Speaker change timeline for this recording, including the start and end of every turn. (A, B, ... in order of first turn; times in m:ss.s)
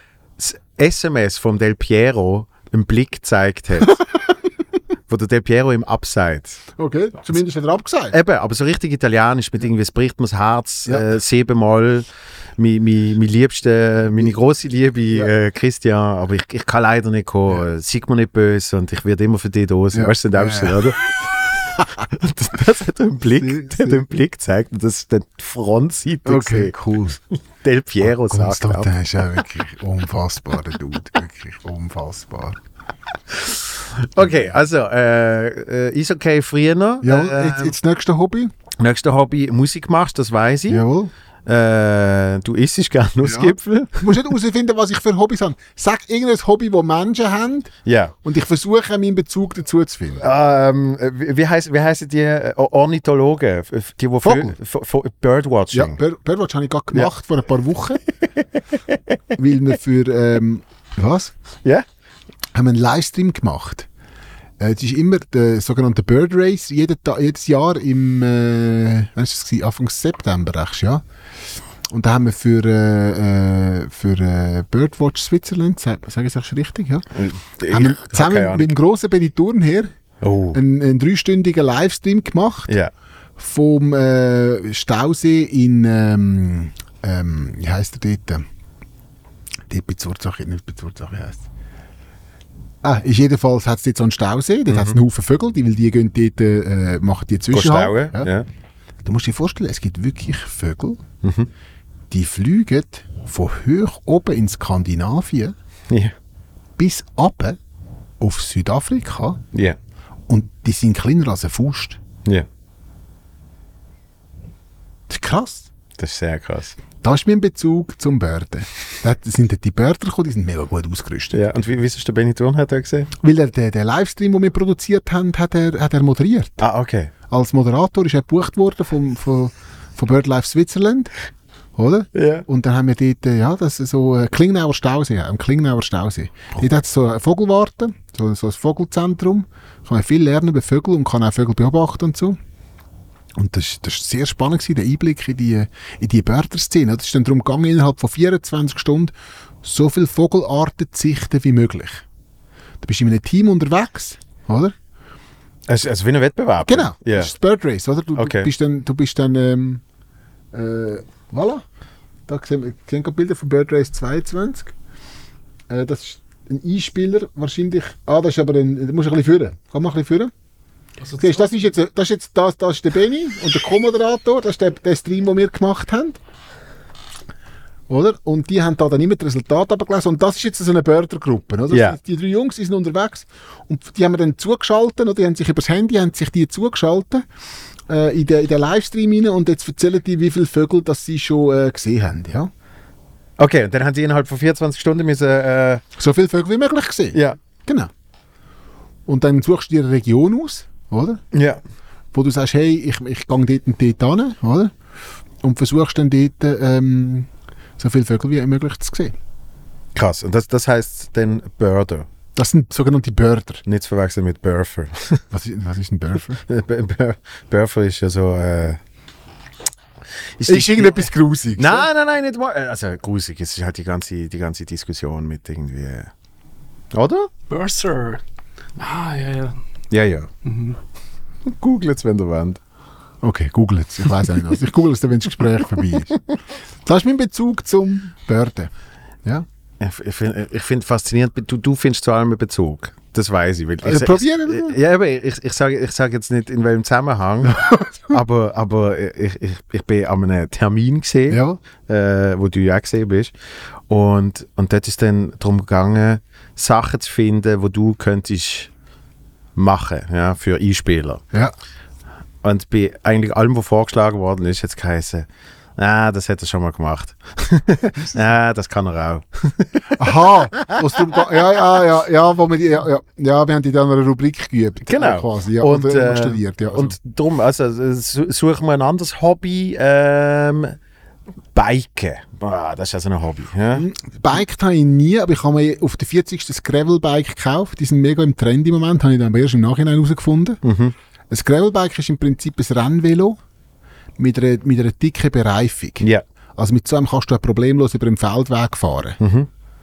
0:00.4-0:04.0 A
0:05.1-0:06.6 A
0:06.8-0:08.1 B
0:08.1-0:12.0 A
0:12.6-0:26.7 A
0:19.9-0:20.8 B
0:23.3-0:24.0 B
0:26.3-0:27.2 B
0:27.6-0:28.9 A
0:28.0-0:32.6 B
0:33.3-0:37.7 A
0:37.0-0:38.5 B
0:38.8-0:40.8 A
0:40.7-0:41.1 B
0:41.4-0:44.1 A
0:43.2-0:47.7 B
0:47.9-0:48.1 A
0:48.2-0:50.2 B
0:50.2-0:56.0 A
0:54.2-0:54.6 B
0:55.7-0:58.0 B
0:59.4-1:01.3 B
1:02.5-1:03.9 B
1:04.6-1:11.0 B
1:11.9-1:17.0 B
1:17.1-1:18.7 A
1:17.7-1:19.9 B
1:20.2-1:20.6 A
1:20.5-1:22.7 B
1:23.4-1:28.4 B
1:29.7-1:31.4 B
1:32.8-1:38.3 B
1:34.7-1:35.0 A
1:37.5-1:38.5 A
1:39.0-1:41.0 B
1:41.2-1:41.5 A
1:42.1-1:45.5 B
1:46.8-1:47.6 B
1:48.2-1:49.4 B
1:49.5-1:49.8 A
1:50.3-1:52.0 B
1:55.1-1:55.7 B
1:56.0-1:56.8 A
1:57.0-2:01.6 B
2:01.3-2:03.1 A
2:03.2-2:06.6 B
2:06.6-2:07.1 A
2:07.3-2:11.1 B
2:11.8-2:22.4 B
2:12.1-2:12.4 A
2:23.4-2:32.0 B
2:32.8-2:34.7 B
2:35.7-2:37.3 A
2:36.6-2:39.8 B
2:38.2-2:38.5 A
2:40.5-2:41.6 B
2:42.3-2:44.7 B
2:45.7-2:50.3 B
2:51.0-2:51.5 C
2:51.2-2:56.2 B
2:57.9-3:07.2 B
3:01.7-3:02.0 A
3:07.9-3:12.5 B
3:13.4-3:15.8 A
3:16.0-3:17.9 B
3:19.1-3:21.2 B
3:21.3-3:21.6 A
3:22.1-3:24.7 B
3:25.4-3:29.1 B
3:29.9-3:32.1 A
3:32.3-3:33.6 B
3:33.6-3:35.2 A
3:35.3-3:36.4 B
3:36.4-3:38.8 A
3:40.4-3:46.1 A
3:40.4-3:41.9 B
3:46.9-3:47.3 A
3:47.5-3:48.2 C
3:48.8-3:49.6 C
3:49.9-3:50.3 A
3:50.4-3:50.8 C
3:51.4-3:52.6 A
3:53.2-3:56.2 B
3:56.8-3:58.7 B
3:59.8-4:13.3 A
4:03.8-4:04.8 B
4:07.4-4:08.2 B
4:11.3-4:11.6 B
4:13.9-4:18.7 A
4:19.6-4:21.2 A
4:22.4-4:31.3 A
4:29.9-4:37.0 B
4:34.9-4:40.8 A
4:41.5-4:43.9 A
4:43.7-4:50.6 B
4:50.6-4:50.9 A
4:51.3-4:53.4 B
4:54.2-4:59.2 B
4:59.2-4:59.5 A